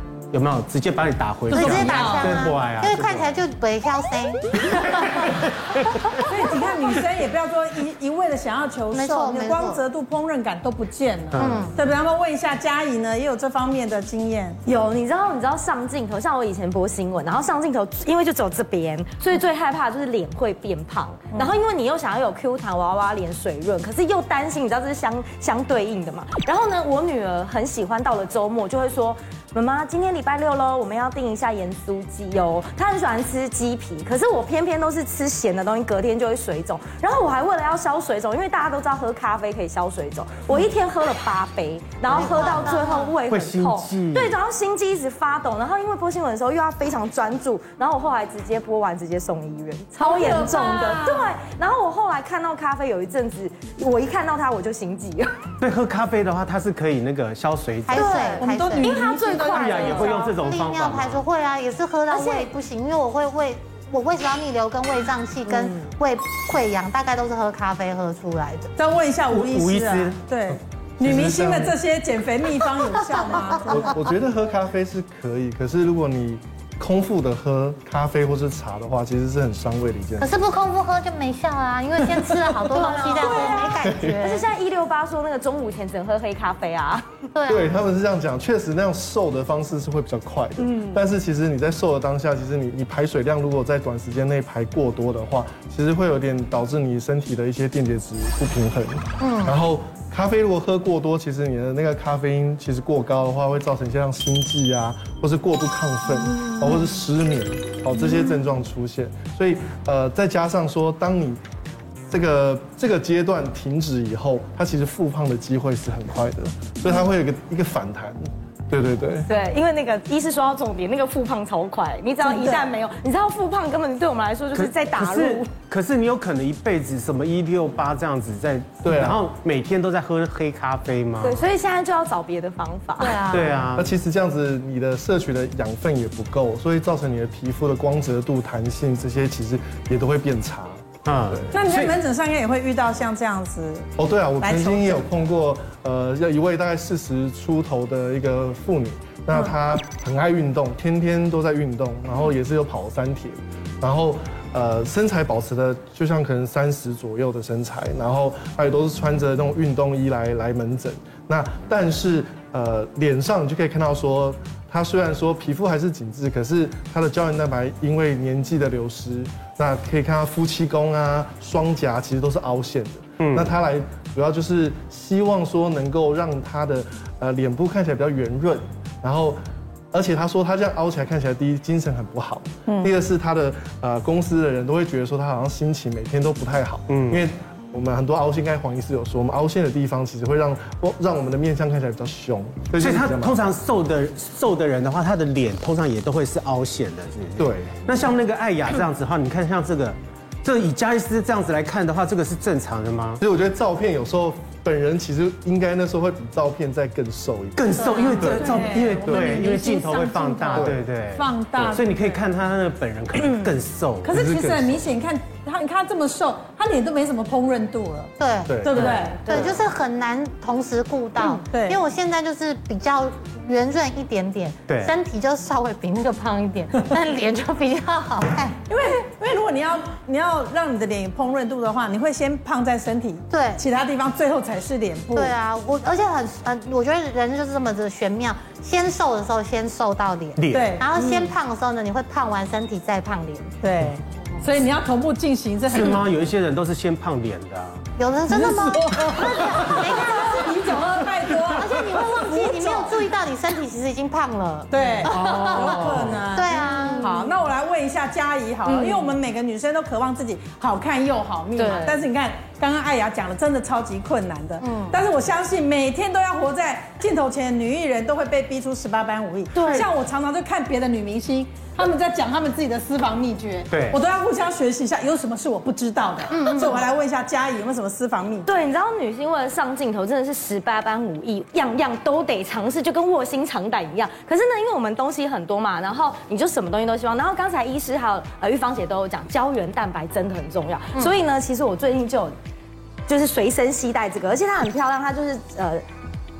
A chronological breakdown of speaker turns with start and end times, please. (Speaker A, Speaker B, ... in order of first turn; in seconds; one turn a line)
Speaker A: 0.3-3.3
Speaker B: 1.5-2.4
Speaker C: 1.5-5.2
Speaker A: 5.0-6.2
Speaker B: 6.2-14.6
Speaker C: 8.9-9.8
Speaker A: 11.3-11.6
Speaker C: 11.4-11.8
Speaker D: 14.7-55.3
Speaker C: 42.1-43.1
Speaker B: 42.2-43.1
Speaker A: 43.3-44.3
Speaker B: 50.0-51.3
Speaker A: 55.6-58.2
Speaker C: 57.9-59.0
Speaker D: 57.9-60.2
Speaker B: 58.4-60.4
Speaker A: 59.3-61.2
Speaker C: 60.2-68.7
Speaker D: 62.1-62.5
Speaker B: 68.8-74.0
Speaker A: 69.3-70.2
Speaker E: 71.0-71.8
Speaker E: 73.7-80.3
Speaker C: 80.2-84.5
Speaker D: 82.7-87.3
Speaker B: 83.1-83.8
Speaker E: 83.8-84.2
Speaker C: 87.3-87.8
Speaker E: 87.5-111.4
Speaker D: 90.6-91.0
Speaker C: 99.2-99.6
Speaker E: 112.1-119.3
Speaker D: 119.3-125.5
Speaker A: 124.5-131.4
Speaker E: 128.8-129.2
Speaker D: 131.2-133.3
Speaker C: 133.0-133.7
Speaker A: 133.3-133.9
Speaker E: 133.7-141.5
Speaker A: 141.0-141.9
Speaker B: 141.5-143.9
Speaker E: 144.0-179.4
Speaker B: 144.4-145.0
Speaker A: 173.2-173.5
Speaker E: 179.9-193.4
Speaker A: 186.9-187.2
Speaker A: 192.8-203.2
Speaker E: 197.4-197.8
Speaker E: 203.2-209.4
Speaker A: 207.6-214.2
Speaker B: 207.8-212.2
Speaker E: 210.5-210.8
Speaker B: 214.0-219.4
Speaker E: 214.1-214.8
Speaker C: 218.2-218.6
Speaker E: 218.5-218.9
Speaker D: 218.8-219.5
Speaker C: 219.2-228.6
Speaker B: 221.2-221.8
Speaker A: 224.7-224.9
Speaker B: 228.7-235.3
Speaker C: 233.3-233.6
Speaker C: 235.1-243.5
Speaker A: 240.4-240.7
Speaker B: 240.5-241.3
Speaker B: 243.6-246.1
Speaker A: 245.7-247.8
Speaker C: 248.0-250.7
Speaker B: 248.3-253.0
Speaker A: 249.3-250.0
Speaker C: 251.5-257.4
Speaker B: 254.7-278.5
Speaker D: 255.1-256.0
Speaker A: 255.3-255.9
Speaker D: 258.6-259.1
Speaker D: 261.6-262.0
Speaker C: 264.6-265.0
Speaker D: 269.5-269.9
Speaker A: 273.7-274.0
Speaker C: 276.4-276.6
Speaker D: 278.4-292.3
Speaker D: 293.1-295.8